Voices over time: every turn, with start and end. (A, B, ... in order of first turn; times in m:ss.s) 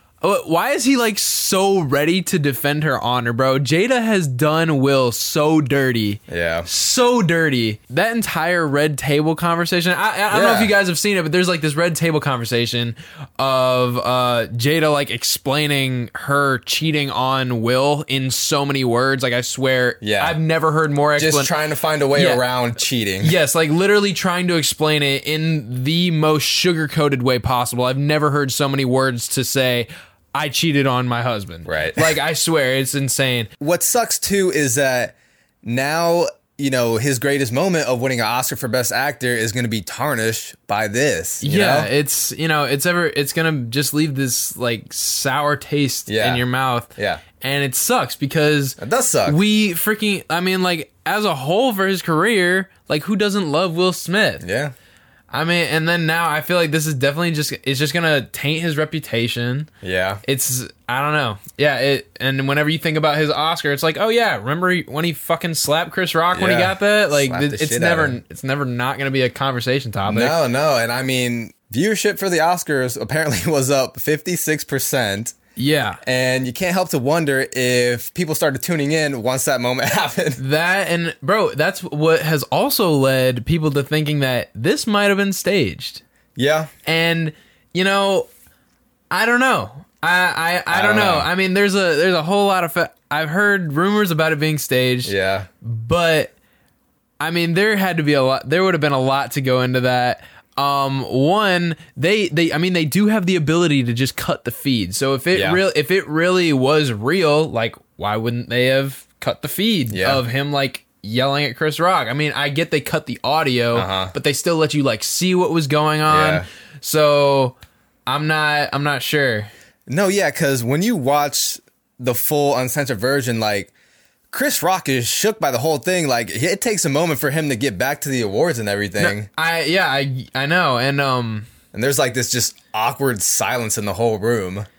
0:00.2-0:21.5 A
0:06.3-0:06.7 B
0:10.3-0:10.7 B
0:20.0-0:20.4 B
0:21.2-0:23.3 B
0:22.1-0:22.4 A
0:23.2-0:33.5 A
0:31.6-0:32.1 B
0:33.6-0:41.9 B
0:41.4-0:54.4 A
0:46.1-0:46.4 B
0:47.0-0:47.2 B
0:48.8-0:49.4 B
0:54.4-0:54.7 B
0:55.3-0:59.7 A
0:59.8-1:00.2 B
1:00.2-1:10.4 A
1:06.3-1:08.2 B
1:10.1-1:15.3 B
1:15.6-1:16.0 A
1:16.0-1:20.4 B
1:20.4-1:26.0 A
1:26.4-1:26.7 B
1:26.8-1:28.3 A
1:29.1-1:36.3 A
1:30.7-1:31.3 B
1:35.0-1:35.5 B
1:37.2-1:59.5 A
1:45.3-1:45.6 B
1:49.9-1:50.2 B
1:53.7-1:54.1 B
1:56.1-1:56.4 B
1:59.9-2:03.7 B
2:04.3-2:09.3 B
2:09.0-2:11.5 A
2:11.7-2:14.7 B